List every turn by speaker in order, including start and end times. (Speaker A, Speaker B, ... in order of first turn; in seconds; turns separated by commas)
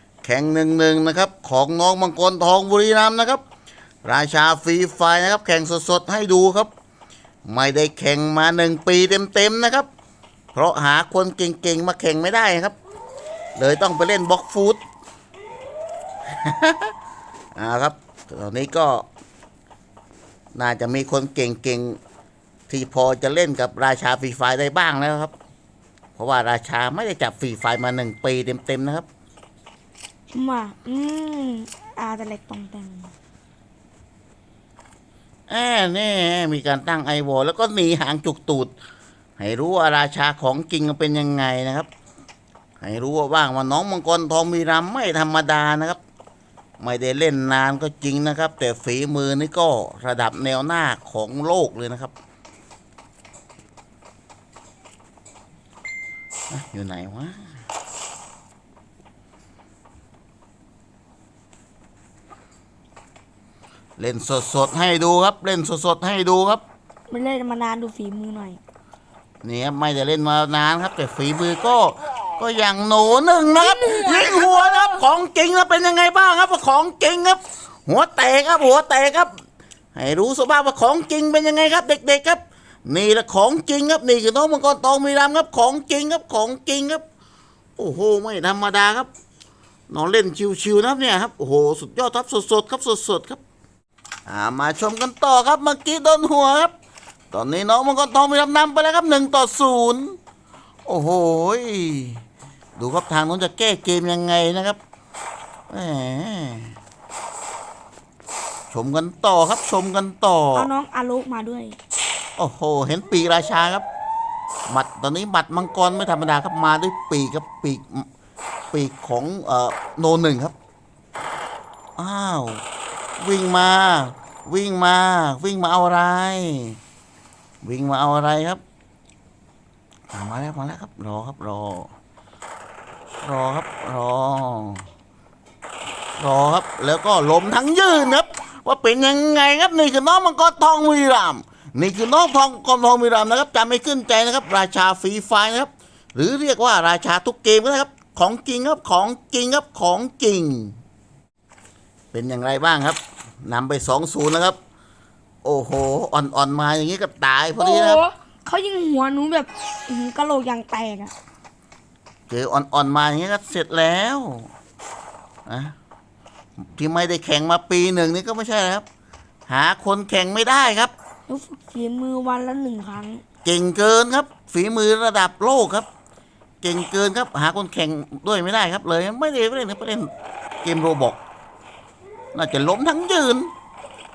Speaker A: 0.2-3.4, Speaker A: 4.0-6.7, Speaker A: 7.4-9.9, Speaker A: 10.5-12.8, Speaker A: 13.6-14.8, Speaker A: 16.4-16.9, Speaker A: 17.5-19.1, Speaker A: 20.5-22.0, Speaker A: 22.7-25.3, Speaker A: 26.1-29.1, Speaker B: 30.3-33.1, Speaker A: 35.5-38.7, Speaker A: 39.4-41.9, Speaker A: 42.8-46.0, Speaker A: 46.8-52.1, Speaker A: 56.5-57.4, Speaker A: 64.0-66.6, Speaker B: 67.1-68.6, Speaker A: 69.4-79.3, Speaker B: 73.6-75.0, Speaker A: 79.9-87.0, Speaker A: 87.8-89.1, Speaker A: 89.9-93.4, Speaker A: 94.3-96.7, Speaker A: 97.3-100.2, Speaker A: 100.8-102.2, Speaker A: 102.8-104.8, Speaker A: 105.7-106.7, Speaker A: 108.7-110.7, Speaker B: 110.5-111.8, Speaker A: 112.4-113.8, Speaker A: 114.7-118.0, Speaker A: 118.7-120.5, Speaker A: 122.0-122.6, Speaker A: 123.2-126.8, Speaker A: 127.6-128.6, Speaker A: 130.1-131.9, Speaker A: 133.2-134.8, Speaker A: 136.2-150.7, Speaker A: 152.1-154.6, Speaker A: 155.4-158.0, Speaker B: 157.6-161.1, Speaker A: 162.3-164.5, Speaker A: 165.5-165.7, Speaker A: 166.6-168.8, Speaker A: 169.5-170.9, Speaker B: 171.3-173.2, Speaker A: 173.4-175.9, Speaker A: 176.6-180.1, Speaker A: 180.6-181.2, Speaker A: 182.3-183.5